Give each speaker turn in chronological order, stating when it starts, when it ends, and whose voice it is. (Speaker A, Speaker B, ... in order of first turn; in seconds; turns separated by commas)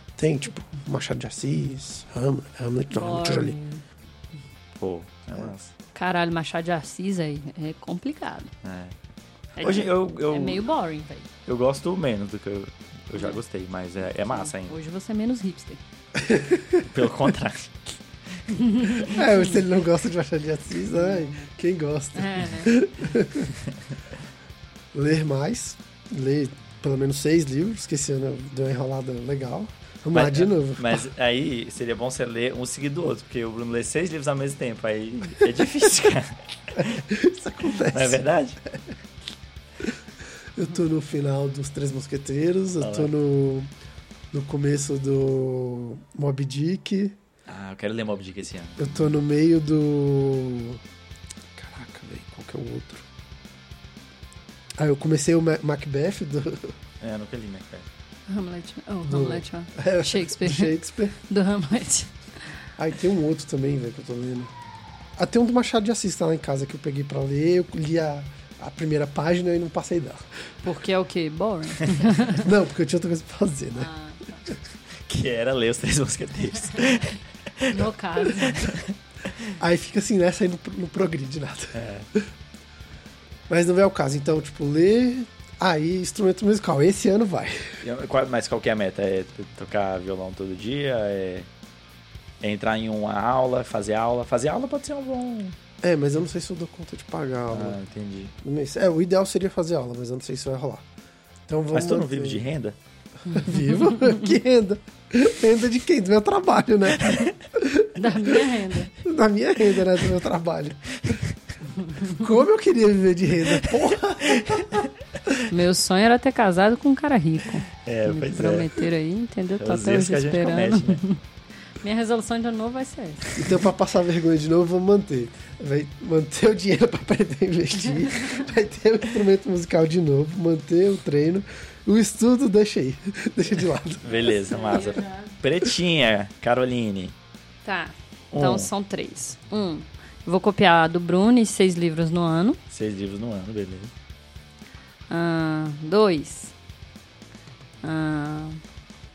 Speaker A: 0.2-3.6, Speaker B: 2.9-3.8, Speaker C: 4.8-5.7, Speaker B: 5.9-8.5, Speaker C: 8.6-8.9, Speaker C: 9.6-10.6, Speaker B: 9.6-11.3, Speaker C: 11.4-14.8, Speaker B: 14.3-15.8, Speaker A: 16.2-16.9, Speaker C: 16.8-17.9, Speaker B: 18.5-19.5, Speaker A: 19.1-23.5, Speaker B: 20.9-21.5, Speaker B: 22.1-22.8, Speaker A: 24.9-31.1, Speaker C: 30.1-37.0, Speaker A: 36.8-38.9, Speaker C: 37.8-38.6, Speaker A: 40.5-43.7, Speaker C: 42.8-43.1, Speaker A: 44.3-47.2, Speaker C: 47.5-49.2, Speaker A: 48.8-50.8, Speaker A: 51.5-53.0, Speaker A: 54.8-56.7, Speaker C: 57.0-57.9, Speaker B: 58.3-62.5, Speaker A: 59.1-61.1, Speaker A: 62.8-64.5, Speaker A: 65.2-70.3, Speaker B: 70.6-72.5, Speaker A: 72.3-73.9, Speaker B: 73.8-74.5, Speaker C: 75.1-78.8, Speaker B: 77.7-78.7, Speaker A: 79.6-81.8, Speaker C: 81.7-82.1, Speaker A: 83.5-87.8, Speaker C: 87.8-91.5, Speaker C: 92.4-95.5, Speaker A: 95.8-97.8, Speaker C: 97.5-98.3, Speaker A: 98.4-100.8, Speaker A: 101.5-102.5, Speaker C: 101.7-102.8, Speaker A: 103.3-108.4, Speaker B: 108.0-108.9, Speaker A: 109.0-111.0, Speaker A: 112.1-114.9, Speaker B: 115.5-121.2, Speaker C: 117.8-118.8, Speaker C: 119.6-121.0, Speaker B: 121.8-123.4, Speaker A: 123.3-134.0, Speaker C: 134.0-137.1, Speaker B: 134.0-135.3, Speaker B: 137.6-142.6, Speaker C: 138.3-138.7, Speaker C: 142.7-143.9, Speaker B: 145.1-146.5, Speaker B: 147.8-148.6